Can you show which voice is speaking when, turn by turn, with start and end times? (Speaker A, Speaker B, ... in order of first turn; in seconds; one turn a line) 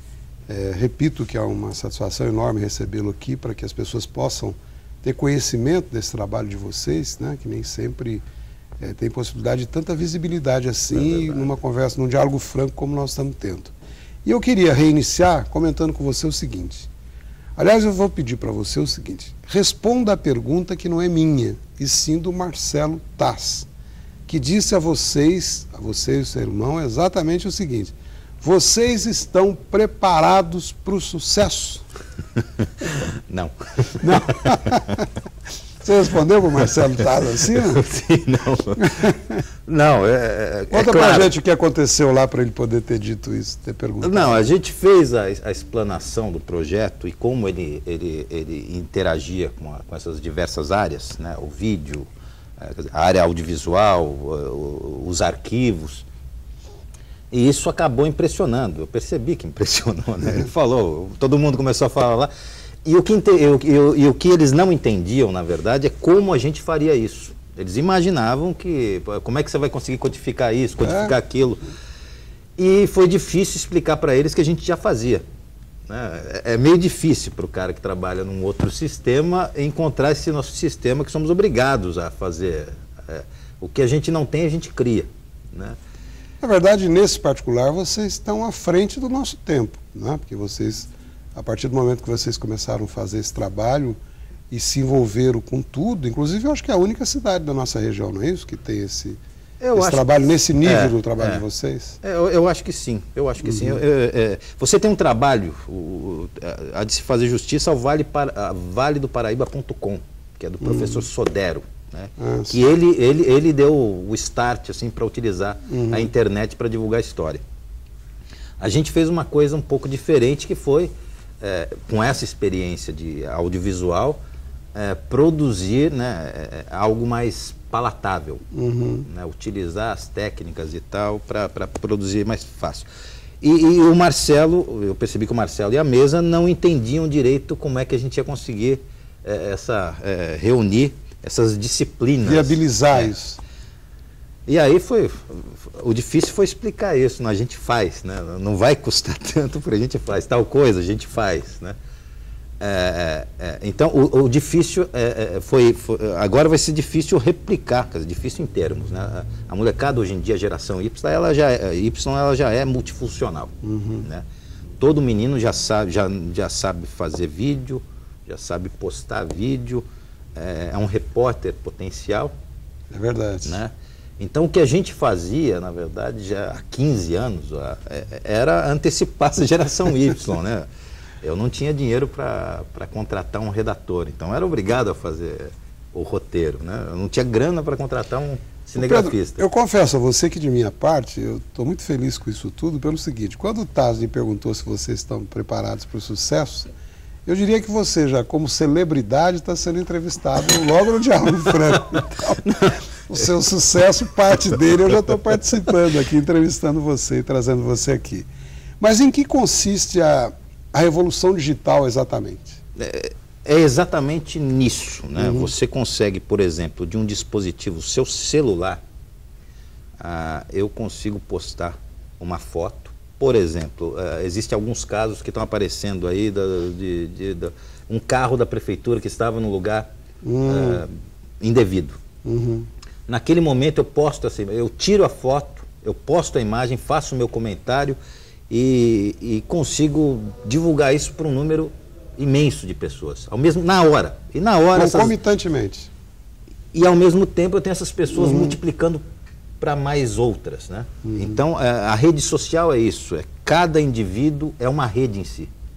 Speaker A: 0.5-8.2
Speaker A: 8.8-13.7
Speaker B: 10.9-11.5
Speaker A: 14.2-16.9
Speaker A: 17.6-23.7
Speaker A: 24.3-31.8
Speaker B: 32.9-34.6
Speaker A: 34.0-35.0
Speaker A: 35.8-37.8
Speaker B: 37.5-39.1
Speaker A: 38.8-39.4
Speaker B: 39.6-41.3
Speaker A: 40.7-44.4
Speaker B: 44.0-52.1
Speaker B: 52.6-56.0
Speaker B: 57.3-62.3
Speaker B: 62.8-71.6
Speaker A: 70.8-71.1
Speaker B: 72.6-75.2
Speaker B: 75.9-85.8
Speaker A: 86.4-94.0
Speaker A: 94.5-99.2
Speaker B: 99.6-101.4
Speaker A: 99.7-102.0
Speaker B: 102.0-117.4
Speaker A: 103.4-103.8
Speaker A: 110.6-111.0
Speaker A: 112.2-112.6
Speaker A: 115.7-116.1
Speaker B: 118.6-124.2
Speaker B: 124.7-128.4
Speaker A: 128.5-129.1
Speaker B: 129.1-132.9
Speaker B: 133.4-143.1
Speaker A: 142.2-143.4
Speaker B: 144.5-151.8
Speaker B: 152.6-164.2
Speaker A: 163.6-164.1
Speaker B: 164.8-169.8
Speaker B: 170.3-172.3
Speaker A: 172.9-173.6
Speaker B: 173.4-180.7
Speaker B: 181.2-189.4
Speaker A: 188.8-196.7
Speaker A: 197.2-202.4
Speaker B: 202.4-202.8
Speaker A: 203.1-208.3
Speaker A: 208.8-212.6
Speaker B: 212.8-218.8
Speaker A: 215.2-215.5
Speaker B: 220.0-229.9
Speaker A: 230.2-230.8
Speaker B: 230.4-232.0
Speaker A: 232.2-232.7
Speaker B: 233.1-238.0
Speaker B: 238.5-245.2
Speaker A: 244.7-245.9
Speaker B: 246.7-249.0
Speaker A: 248.1-248.6
Speaker B: 249.6-255.5
Speaker A: 251.0-251.4